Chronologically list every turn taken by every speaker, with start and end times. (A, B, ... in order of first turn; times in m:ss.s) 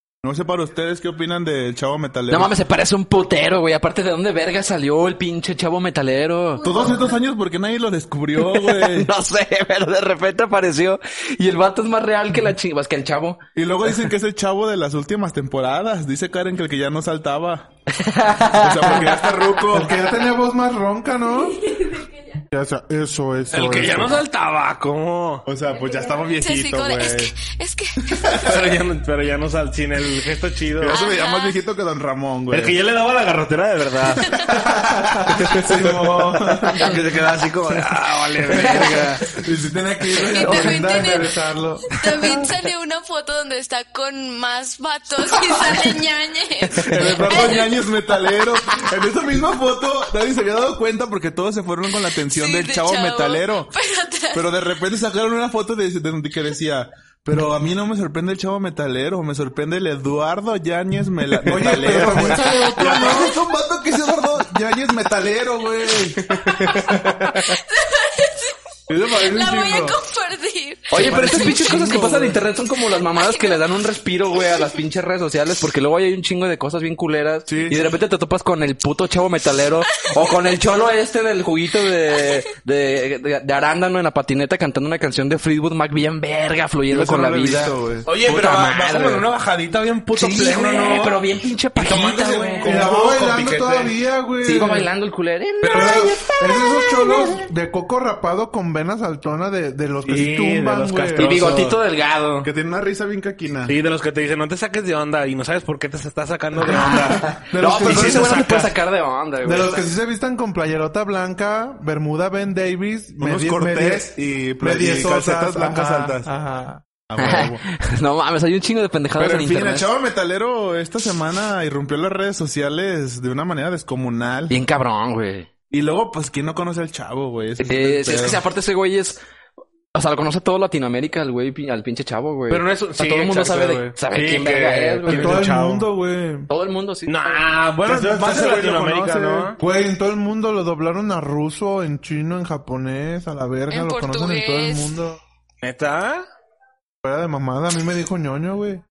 0:00.2-0:02.5 A
0:02.3-0:06.9 B
0:06.6-0:09.1 A
0:08.4-0:13.4 B
0:13.6-0:17.7 A
0:17.9-0:19.4 B
0:18.5-0:20.0 A
0:19.7-0:21.8 C
0:22.5-0:24.2 C
0:23.5-0:25.5 D
0:25.4-0:27.4 A
0:26.3-0:28.2 E
0:28.1-0:28.5 A
0:28.3-0:31.0 D
0:30.8-0:32.8 A
0:30.9-0:31.6 E
0:32.5-0:34.4 D
0:34.2-0:34.7 E
0:34.7-0:37.0 C
0:35.5-0:35.9 D
0:35.6-0:36.0 A
0:36.7-0:39.4 D
0:38.5-0:42.4 C
0:38.5-0:38.9 B
0:40.2-0:41.3 E
0:41.9-0:47.9 E
0:46.8-0:47.1 B
0:46.8-0:53.7 A
0:52.2-0:54.5 E
0:54.3-1:06.4 A
1:01.4-1:03.3 C
1:06.4-1:06.9 B
1:06.5-1:08.5 E
1:08.9-1:10.0 C
1:09.1-1:11.1 E
1:10.9-1:29.3 B
1:11.0-1:12.3 C
1:13.2-1:13.6 E
1:14.4-1:14.8 E
1:17.4-1:17.9 A
1:26.9-1:28.1 A
1:28.0-1:31.2 D
1:30.1-1:32.9 B
1:31.8-1:33.9 D
1:31.9-1:32.2 A
1:32.6-1:34.9 C
1:34.4-1:37.4 B
1:35.6-1:41.4 C
1:40.0-1:41.8 D
1:41.2-1:42.5 B
1:42.4-1:43.8 A
1:43.7-1:48.7 D
1:46.6-1:48.4 C
1:46.6-1:49.8 B
1:49.4-1:56.8 C
1:53.2-1:56.3 A
1:57.1-1:57.6 A
1:57.2-1:59.9 B
1:59.2-2:04.6 A
2:04.5-2:05.5 B
2:05.7-2:08.4 A
2:07.6-2:09.2 B
2:09.9-2:15.4 B
2:12.5-2:15.9 D
2:15.1-2:16.5 C
2:16.5-2:17.4 B
2:17.1-2:19.6 D
2:17.8-2:19.5 A
2:19.6-2:25.2 C
2:23.7-2:24.9 E
2:25.6-2:26.2 D
2:27.0-2:28.8 C